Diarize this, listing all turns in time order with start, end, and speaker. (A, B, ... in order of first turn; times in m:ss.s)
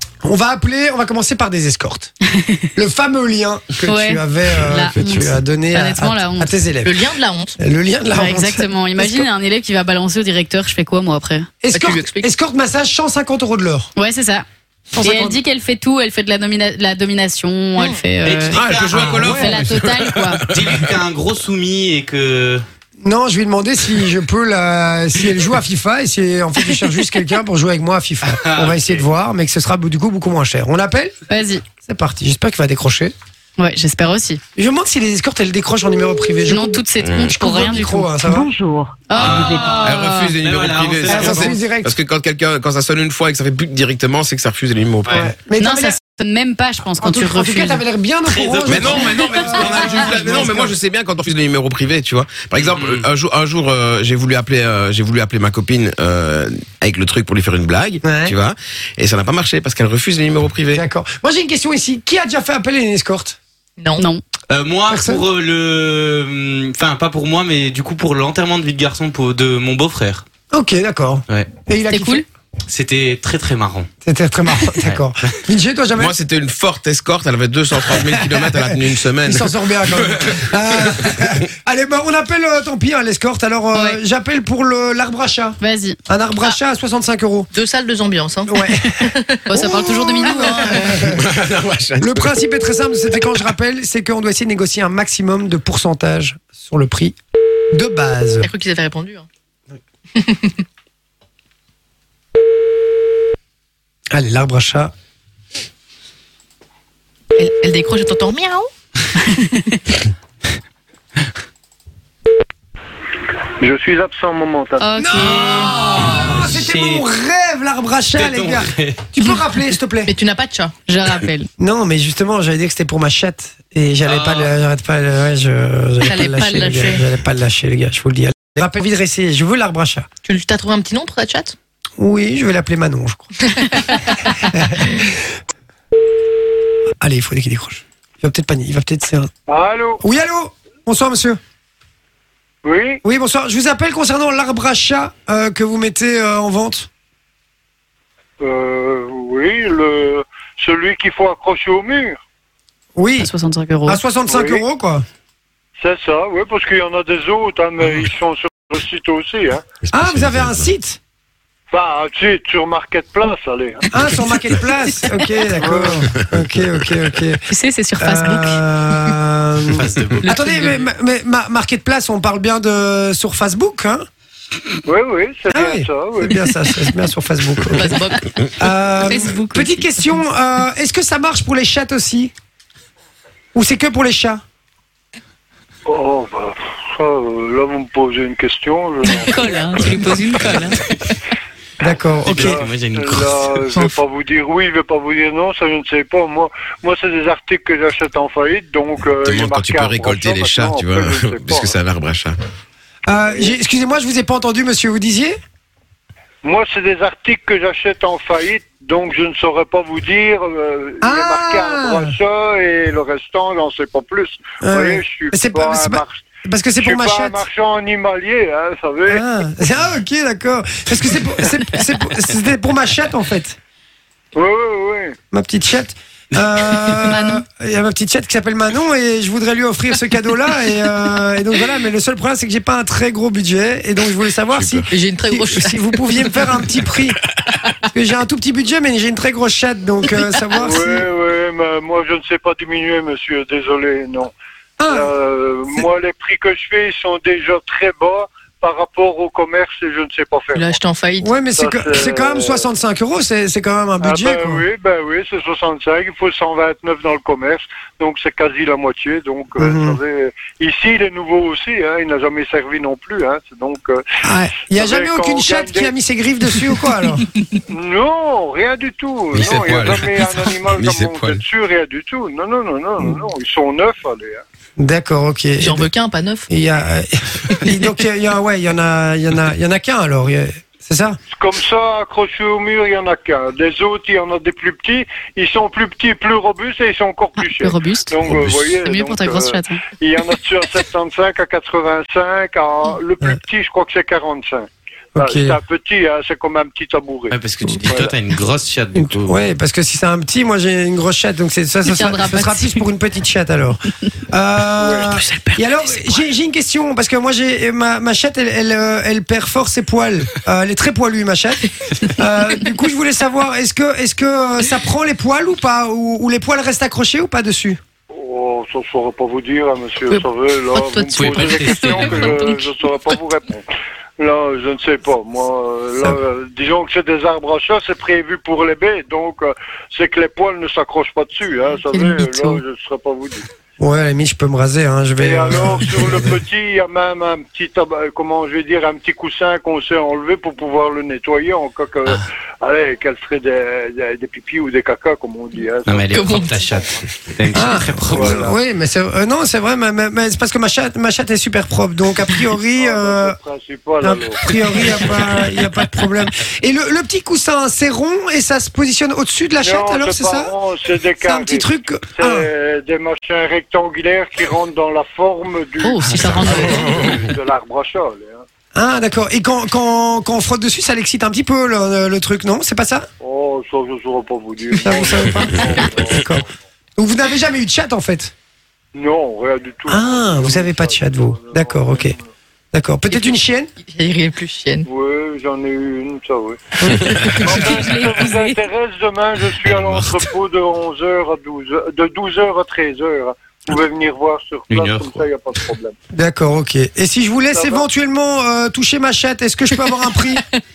0:00.2-0:02.1 A
0:02.3-0:02.6 B
0:02.7-0:07.0 A
0:03.8-0:06.6 B
0:06.8-0:07.6 C
0:07.6-0:09.3 A
0:08.1-0:11.5 B
0:11.6-0:13.9 A
0:11.7-0:12.3 C
0:14.0-0:14.4 B
0:15.0-0:15.4 C
0:15.0-0:20.4 B
0:18.2-0:19.6 D
0:18.5-0:20.9 E
0:19.2-0:19.5 A
0:20.5-0:22.6 D
0:23.0-0:31.1 A
0:28.2-0:29.0 D
0:31.3-0:31.6 B
0:31.8-0:33.1 A
0:33.6-0:34.4 B
0:34.6-0:38.5 A
0:36.4-0:40.2 B
0:37.0-0:37.4 E
0:39.1-0:41.6 D
0:39.2-0:45.3 E
0:41.1-0:41.9 A
0:45.1-0:46.0 A
0:45.5-0:47.8 B
0:47.0-0:50.7 A
0:48.2-0:50.5 D
0:48.6-1:00.8 E
0:52.6-0:53.0 D
0:58.0-0:58.3 A
1:00.7-1:03.4 A
1:03.8-1:04.1 C
1:04.5-1:10.2 D
1:04.9-1:05.2 A
1:10.5-1:12.2 A
1:11.9-1:12.2 B
1:12.6-1:13.9 D
1:14.0-1:16.2 A
1:14.7-1:15.3 D
1:15.9-1:19.5 E
1:17.9-1:27.5 A
1:23.7-1:24.0 B
1:25.6-1:26.0 B
1:27.5-1:29.5 C
1:28.5-1:31.2 A
1:29.5-1:30.8 B
1:30.5-1:30.9 C
1:30.9-1:32.4 E
1:32.0-1:37.2 A
1:37.7-1:38.5 A
1:38.4-1:39.3 C
1:40.1-1:40.6 C
1:44.1-1:44.9 A
1:47.4-1:49.2 C
1:49.3-1:49.8 B
1:53.6-1:55.2 F
1:54.8-1:55.7 B
1:55.0-2:00.1 A
1:55.2-1:57.0 D
1:58.1-1:59.1 D
2:00.0-2:00.7 C
2:00.8-2:01.5 B
2:01.6-2:10.1 A
2:04.0-2:04.5 D
2:06.0-2:07.0 C
2:10.2-2:11.5 C
2:12.0-2:15.3 A
2:13.6-2:14.1 C
2:17.0-2:19.3 A
2:19.5-2:20.0 F
2:20.0-2:21.4 A
2:22.6-2:23.0 F
2:23.0-2:26.9 A
2:28.4-2:32.2 F
2:32.9-2:33.3 A
2:33.2-2:34.0 B
2:33.9-2:35.0 A
2:34.2-2:34.6 F
2:35.8-2:39.6 F
2:39.8-2:40.7 E
2:39.9-2:41.0 A
2:41.7-2:43.9 F
2:43.9-2:47.4 A
2:45.6-2:46.1 F
2:47.5-2:48.6 B
2:48.0-2:54.0 A
2:49.6-2:50.8 D
2:54.8-2:56.4 F
2:55.5-2:57.9 A
2:57.7-2:58.2 C
2:58.5-3:02.3 A
2:59.0-3:00.2 B
3:03.5-3:04.4 A
3:05.9-3:09.8 F
3:09.0-3:10.8 B
3:11.8-3:12.6 A
3:12.2-3:21.7 F
3:12.2-3:13.9 D
3:19.2-3:22.4 E
3:23.0-3:25.4 A
3:23.3-3:23.6 F
3:26.4-3:36.2 F
3:31.0-3:32.1 A
3:34.6-3:37.4 A
3:36.8-3:39.4 F
3:39.1-3:43.6 A
3:44.3-3:45.2 F
3:45.3-3:57.2 A
3:47.0-3:47.4 B
3:54.5-3:54.8 E
3:54.9-3:56.6 C
3:57.9-4:01.1 A
4:00.6-4:04.3 F
4:04.8-4:05.1 A
4:04.9-4:10.8 F
4:10.5-4:11.4 C
4:11.2-4:14.6 A
4:11.5-4:12.7 F
4:14.0-4:24.0 F
4:19.6-4:20.0 A
4:24.2-4:27.3 A
4:24.7-4:25.9 F
4:27.7-4:34.4 F
4:29.3-4:31.4 E
4:34.8-4:35.9 A
4:35.6-4:36.5 C
4:36.5-4:41.2 A
4:41.3-4:58.1 F
4:47.4-4:49.8 B
4:55.1-4:55.6 A
4:57.3-4:59.4 D
4:58.9-5:17.8 A
5:01.8-5:02.8 C
5:04.8-5:05.1 F
5:05.1-5:06.2 C
5:18.1-5:23.6 F
5:20.1-5:22.5 C
5:21.1-5:22.5 D
5:24.2-5:33.4 F
5:31.8-5:32.6 C
5:33.8-5:36.4 A
5:35.2-5:47.0 F
5:45.8-5:48.5 D
5:46.1-5:46.6 C
5:47.5-5:53.4 A
5:48.0-5:48.5 F
5:52.8-5:55.1 F
5:54.0-6:00.5 A
5:59.6-6:08.4 F
6:01.2-6:02.5 A
6:05.8-6:06.5 B
6:06.2-6:06.9 C
6:08.7-6:13.1 A
6:13.2-6:16.4 F
6:14.8-6:18.3 A
6:18.9-6:22.3 F
6:19.9-6:22.1 A
6:22.7-6:23.7 A
6:23.1-6:24.9 C
6:24.8-6:26.7 F
6:26.8-6:27.6 A
6:26.9-6:28.6 C
6:27.3-6:35.9 F
6:29.7-6:30.1 D
6:34.7-6:35.2 D
6:36.1-6:40.4 A
6:37.5-6:37.9 F
6:40.1-6:40.6 C